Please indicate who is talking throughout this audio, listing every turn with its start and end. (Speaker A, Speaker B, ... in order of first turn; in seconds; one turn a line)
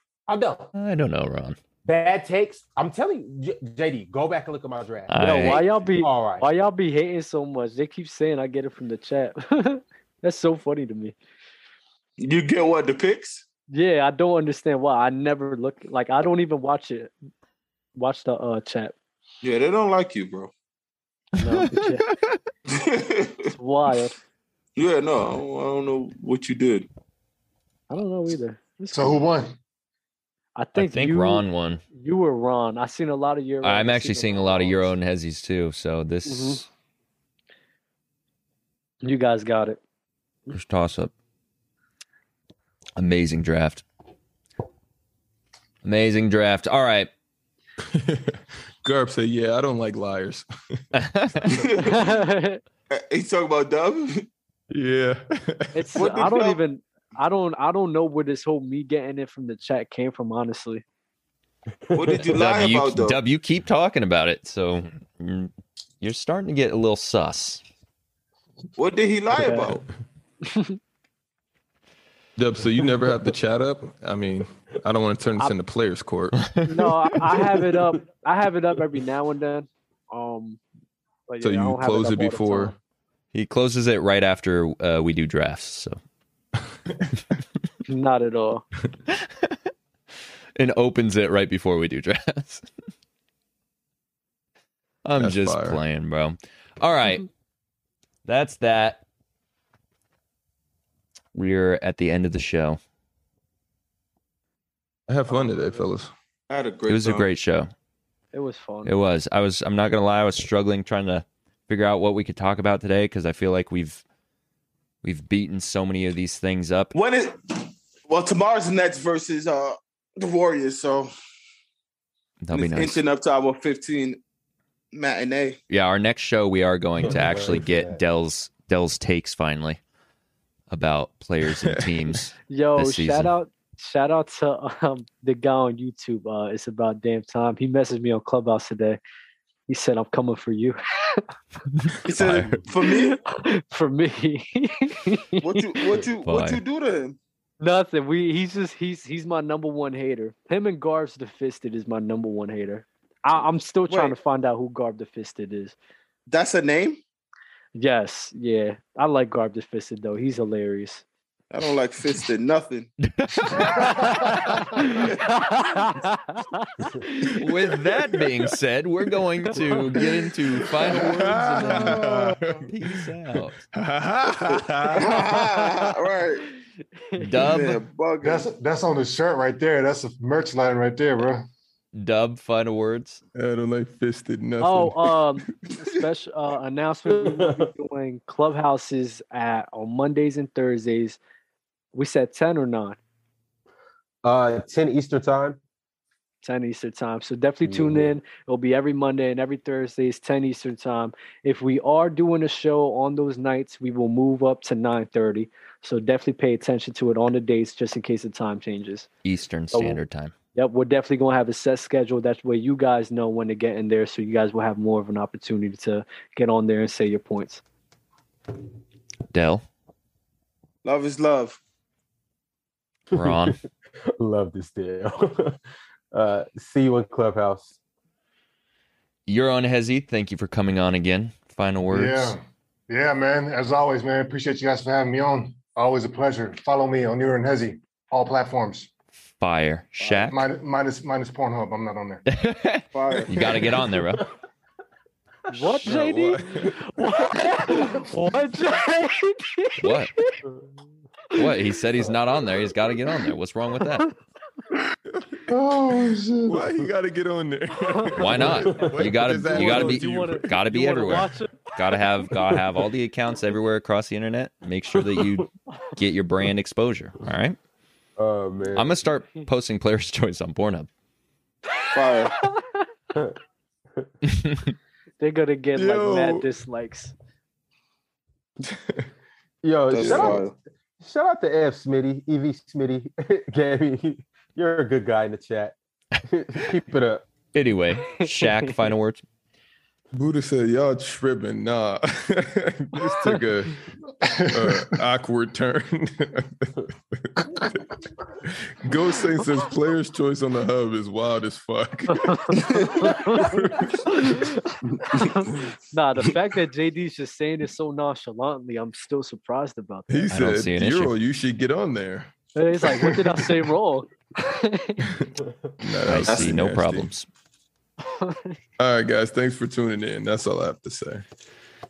Speaker A: 0.3-0.7
Speaker B: 0.8-1.6
Speaker A: 1.9-6.5
Speaker B: 5.1-5.6
Speaker C: 5.2-11.2
Speaker D: 12.2-13.4
Speaker C: 13.7-17.1
Speaker C: 18.0-18.9
Speaker D: 19.4-20.5
Speaker C: 21.4-22.1
Speaker B: 21.4-22.4
Speaker D: 22.7-23.5
Speaker C: 23.4-24.2
Speaker D: 24.8-26.9
Speaker C: 27.9-29.2
Speaker E: 28.9-29.6
Speaker C: 30.6-35.0
Speaker B: 30.8-31.8
Speaker B: 33.6-36.6
Speaker C: 36.3-36.6
Speaker C: 39.0-39.8
Speaker B: 40.5-41.1
Speaker B: 43.0-43.9
Speaker B: 45.8-47.1
Speaker F: 47.8-50.8
Speaker B: 51.0-51.6
Speaker D: 51.5-52.0
Speaker C: 51.8-52.6
Speaker D: 52.9-54.2
Speaker F: 54.7-55.9
Speaker C: 55.8-60.8
Speaker D: 56.0-56.6
Speaker A: 61.9-62.3
Speaker D: 61.9-63.2
Speaker B: 62.2-67.6
Speaker D: 68.8-69.8
Speaker C: 69.3-69.7
Speaker C: 70.5-70.8
Speaker F: 72.4-76.4
Speaker B: 76.4-76.8
Speaker C: 76.7-80.6
Speaker A: 77.4-77.9
Speaker C: 81.3-82.8
Speaker F: 81.4-82.7
Speaker B: 83.3-86.0
Speaker C: 87.9-88.7
Speaker B: 89.1-89.5
Speaker B: 90.6-92.7
Speaker B: 95.0-97.3
Speaker F: 95.2-95.8
Speaker B: 98.2-99.0
Speaker B: 101.3-102.8
Speaker F: 105.1-106.1
Speaker C: 105.3-105.7
Speaker D: 106.5-107.3
Speaker B: 106.9-107.7
Speaker C: 108.3-108.9
Speaker B: 108.8-114.0
Speaker B: 115.0-116.9
Speaker D: 116.9-121.1
Speaker B: 122.4-123.0
Speaker D: 122.5-124.2
Speaker D: 124.9-125.6
Speaker B: 125.7-129.8
Speaker A: 127.0-128.0
Speaker B: 130.7-133.3
Speaker C: 132.5-139.0
Speaker C: 139.7-141.3
Speaker B: 141.8-142.6
Speaker D: 142.1-143.2
Speaker C: 142.9-145.4
Speaker D: 145.4-147.2
Speaker B: 146.2-146.6
Speaker C: 147.6-155.8
Speaker D: 153.9-154.2
Speaker D: 156.3-157.0
Speaker C: 157.8-161.0
Speaker D: 161.5-162.9
Speaker B: 163.0-164.6
Speaker C: 163.7-167.4
Speaker F: 167.3-168.5
Speaker B: 167.4-172.1
Speaker C: 169.5-170.1
Speaker F: 169.9-173.1
Speaker C: 171.0-172.4
Speaker B: 172.7-173.6
Speaker F: 173.7-175.4
Speaker D: 174.5-176.4
Speaker C: 177.0-177.6
Speaker B: 177.2-177.8
Speaker D: 177.4-178.5
Speaker E: 178.2-181.5
Speaker B: 181.9-183.2
Speaker F: 183.3-185.2
Speaker C: 184.6-191.2
Speaker A: 187.1-187.7
Speaker C: 191.9-193.0
Speaker A: 194.2-195.6
Speaker C: 196.4-209.1
Speaker A: 197.7-198.1
Speaker B: 209.2-210.3
Speaker C: 210.6-217.6
Speaker B: 219.3-219.6
Speaker D: 220.8-221.6
Speaker A: 223.1-223.6
Speaker B: 223.1-223.6
Speaker A: 224.1-225.6
Speaker A: 226.1-227.7
Speaker B: 229.3-232.3
Speaker E: 231.9-238.9
Speaker B: 239.4-240.5
Speaker D: 240.0-240.3
Speaker E: 240.3-242.2
Speaker B: 242.3-244.2
Speaker D: 242.9-243.3
Speaker A: 243.3-244.3
Speaker C: 245.5-250.4
Speaker A: 245.6-246.0
Speaker F: 245.9-246.7
Speaker B: 249.8-250.2
Speaker B: 251.4-254.1
Speaker E: 255.5-256.6
Speaker F: 256.5-260.6
Speaker C: 257.9-258.2
Speaker B: 258.2-267.6
Speaker A: 258.4-259.2
Speaker C: 259.5-261.8
Speaker A: 265.0-265.5
Speaker A: 268.2-269.0
Speaker B: 268.8-270.9
Speaker C: 271.7-272.9
Speaker D: 271.9-272.3
Speaker B: 274.3-274.7
Speaker C: 275.2-277.1
Speaker F: 275.8-276.5
Speaker A: 279.6-287.2
Speaker D: 279.9-280.5
Speaker B: 287.5-289.2
Speaker C: 288.1-288.8
Speaker F: 290.1-293.8
Speaker C: 293.1-293.4
Speaker E: 294.2-294.9
Speaker F: 294.4-297.5
Speaker F: 298.5-304.4
Speaker C: 302.1-310.4
Speaker D: 302.6-303.1
Speaker F: 310.1-313.7
Speaker B: 310.3-311.1
Speaker C: 312.6-315.1
Speaker F: 315.0-317.1
Speaker B: 316.1-317.3
Speaker D: 316.3-316.6
Speaker C: 318.0-318.6
Speaker F: 318.8-321.2